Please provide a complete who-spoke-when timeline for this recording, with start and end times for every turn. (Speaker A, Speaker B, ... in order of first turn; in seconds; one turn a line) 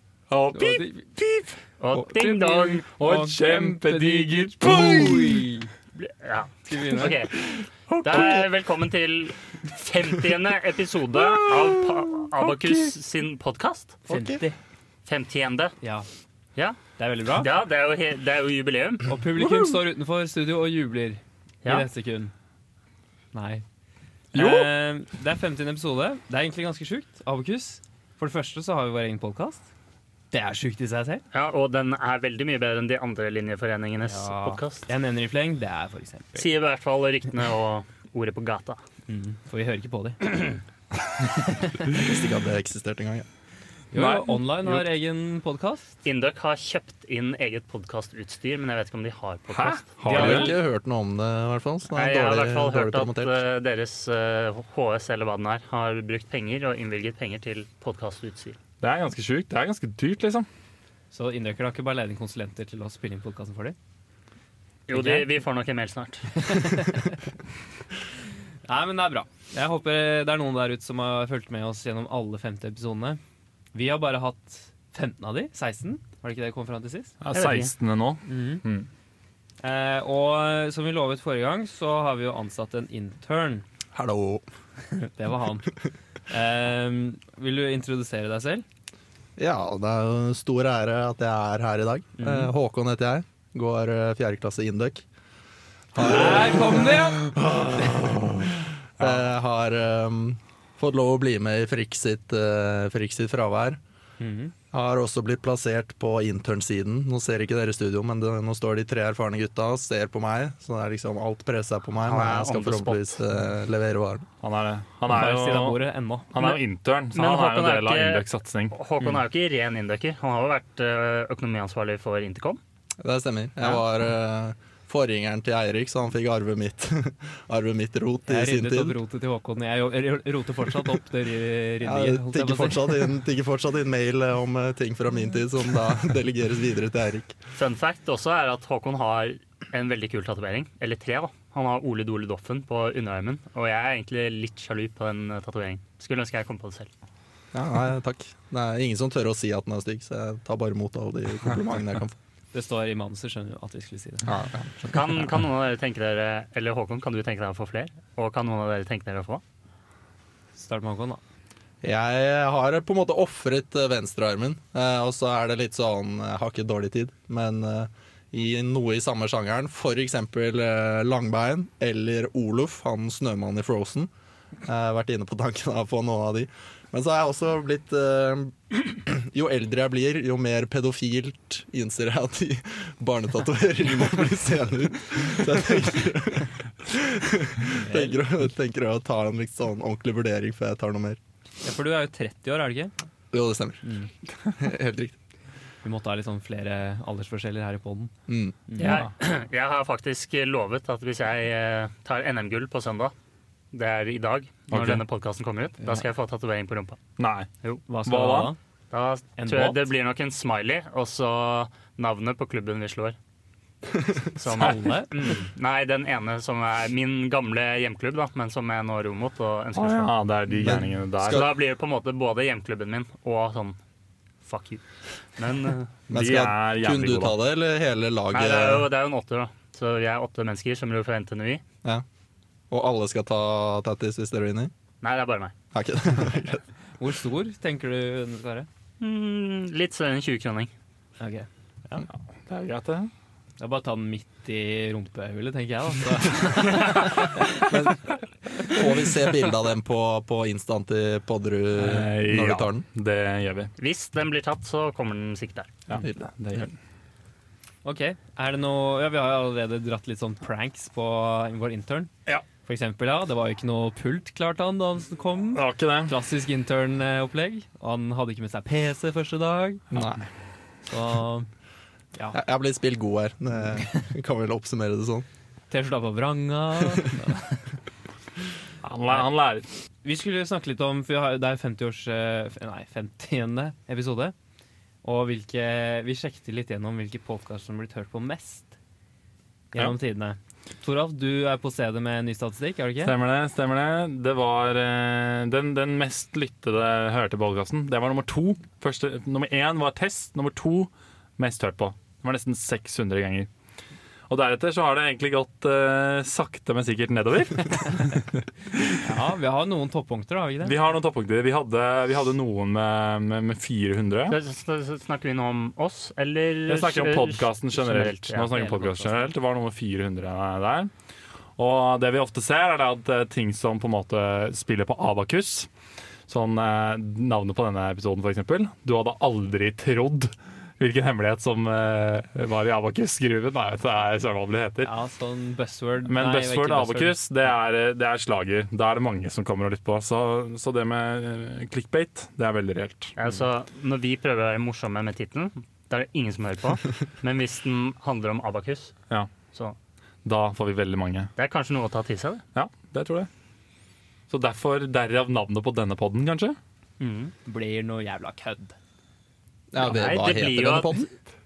Speaker A: 0.3-1.5
Speaker B: 0.5-1.2
Speaker C: 1.8-2.9
Speaker B: 2.0-5.7
Speaker A: 2.3-5.5
Speaker C: 6.0-7.4
Speaker B: 6.6-7.2
Speaker A: 7.5-8.4
Speaker C: 8.0-14.0
Speaker B: 14.1-14.6
Speaker C: 15.1-15.7
Speaker B: 15.8-16.1
Speaker B: 17.0-17.5
Speaker C: 17.4-19.1
Speaker B: 19.1-22.3
Speaker B: 23.3-23.6
Speaker A: 24.3-24.7
Speaker B: 24.3-29.6
Speaker B: 30.3-31.2
Speaker C: 31.3-34.9
Speaker B: 34.0-36.5
Speaker C: 36.4-38.8
Speaker B: 39.1-40.5
Speaker B: 41.5-41.9
Speaker D: 41.9-43.2
Speaker B: 43.9-45.9
Speaker A: 43.9-44.8
Speaker C: 46.0-49.9
Speaker A: 49.5-50.5
Speaker B: 50.0-50.6
Speaker D: 50.1-53.3
Speaker C: 51.9-58.6
Speaker A: 58.8-60.5
Speaker B: 61.1-63.8
Speaker C: 64.9-66.8
Speaker B: 64.9-65.3
Speaker B: 66.4-67.2
Speaker B: 68.7-73.2
Speaker B: 73.7-77.1
Speaker A: 77.2-78.9
Speaker C: 77.3-77.7
Speaker B: 78.3-78.6
Speaker B: 79.6-83.7
Speaker D: 83.9-84.5
Speaker B: 84.9-85.8
Speaker B: 86.3-88.7
Speaker D: 89.4-95.0
Speaker B: 92.2-92.5
Speaker D: 95.9-98.3
Speaker B: 96.0-97.4
Speaker A: 97.8-98.5
Speaker D: 99.0-103.8
Speaker B: 104.2-104.5
Speaker D: 104.7-114.3
Speaker C: 112.0-113.1
Speaker A: 114.4-118.7
Speaker B: 115.1-116.6
Speaker C: 117.1-122.6
Speaker D: 123.0-128.9
Speaker B: 128.3-133.1
Speaker D: 131.8-137.3
Speaker C: 137.5-146.9
Speaker D: 147.5-152.2
Speaker B: 152.5-154.3
Speaker D: 154.2-155.4
Speaker C: 154.9-159.4
Speaker B: 160.5-161.2
Speaker D: 161.8-174.1
Speaker D: 174.6-191.2
Speaker B: 187.7-188.2
Speaker B: 191.6-192.9
Speaker D: 193.3-193.8
Speaker B: 193.8-194.1
Speaker D: 194.4-195.2
Speaker B: 195.8-198.1
Speaker D: 198.3-198.6
Speaker B: 198.7-199.0
Speaker C: 198.8-203.1
Speaker A: 198.8-199.1
Speaker C: 203.7-207.0
Speaker A: 204.7-205.0
Speaker A: 207.2-207.5
Speaker B: 207.9-208.6
Speaker A: 208.1-208.5
Speaker C: 208.9-213.2
Speaker B: 209.3-209.9
Speaker D: 213.9-214.2
Speaker C: 214.3-223.8
Speaker B: 214.5-215.1
Speaker A: 219.7-221.4
Speaker D: 220.5-221.5
Speaker C: 224.4-224.8
Speaker C: 225.4-225.9
Speaker D: 226.1-228.9
Speaker A: 226.1-227.4
Speaker C: 228.3-231.6
Speaker D: 232.7-234.7
Speaker C: 235.0-235.5
Speaker D: 235.7-236.6
Speaker B: 237.0-238.7
Speaker C: 239.0-240.7
Speaker B: 241.2-241.5
Speaker A: 241.9-243.1
Speaker B: 243.6-247.8
Speaker D: 247.6-248.1
Speaker D: 248.6-252.8
Speaker A: 251.8-253.7
Speaker C: 253.8-255.7
Speaker A: 255.9-256.8
Speaker D: 256.0-256.6
Speaker B: 257.8-262.1
Speaker B: 262.6-269.8
Speaker A: 265.6-266.1
Speaker D: 269.9-270.2
Speaker B: 270.9-271.5
Speaker D: 272.3-275.2
Speaker B: 275.7-277.6
Speaker A: 278.8-279.7
Speaker B: 280.0-284.3
Speaker B: 285.0-288.8
Speaker B: 289.7-293.1
Speaker A: 293.0-303.5
Speaker A: 304.3-309.0
Speaker B: 309.0-310.8
Speaker A: 310.6-314.4
Speaker C: 314.3-318.5
Speaker A: 316.7-320.9
Speaker B: 318.5-319.3
Speaker A: 321.6-325.7
Speaker A: 326.3-334.9
Speaker B: 334.8-337.2
Speaker A: 336.1-343.1
Speaker C: 343.2-348.9
Speaker A: 350.2-351.3
Speaker C: 351.4-352.4
Speaker A: 352.5-353.3
Speaker A: 354.3-356.6
Speaker C: 357.0-357.3
Speaker B: 357.4-358.8
Speaker D: 359.7-361.1
Speaker C: 359.8-361.0